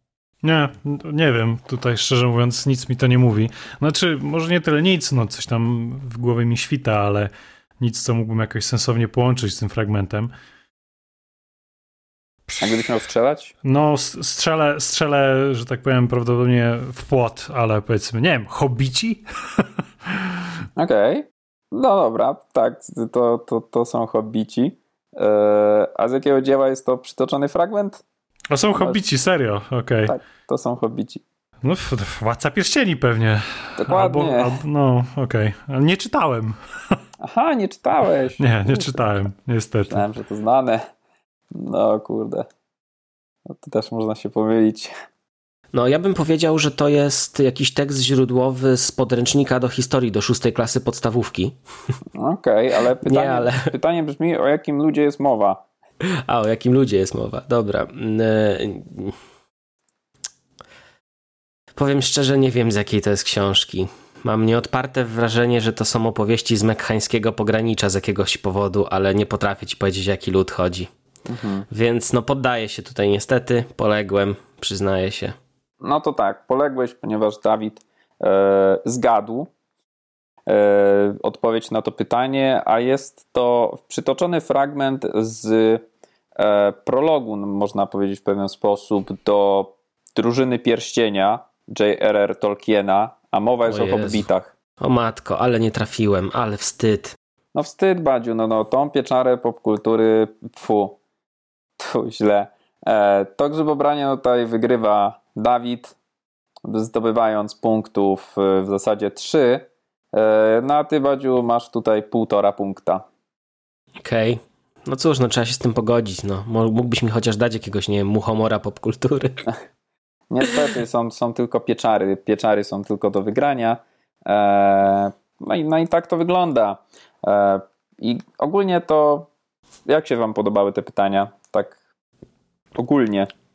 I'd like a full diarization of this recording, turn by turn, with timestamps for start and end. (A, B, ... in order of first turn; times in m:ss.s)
0:00.4-0:10.3 A
0:12.5-0:12.8 A
0:12.6-0:13.5 B
0:13.6-0:20.4 A
0:20.8-0:28.0 B
0:28.5-0:30.2 A
0:30.1-0:31.2 B
0:31.6-0:37.0 A
0:33.8-0:34.6 B
0:37.2-0:39.1 B
0:38.4-0:40.0 A
0:39.9-0:40.8 B
0:41.5-0:42.5 B
0:43.5-0:44.9 B
0:45.7-0:51.6 C
0:52.2-0:55.6 B
0:53.0-0:53.7 C
0:56.3-0:59.2 C
1:01.8-1:10.9 C
1:11.3-1:11.7 B
1:11.7-1:15.4 C
1:15.8-1:19.5 B
1:20.5-1:34.5 B
1:33.7-1:34.3 C
1:34.8-1:37.2 C
1:37.6-1:41.0 B
1:41.8-1:46.0 B
1:46.6-1:53.0 B
1:54.0-1:59.5 C
2:00.3-2:09.3 B
2:09.9-2:11.8 B
2:12.8-2:13.3 B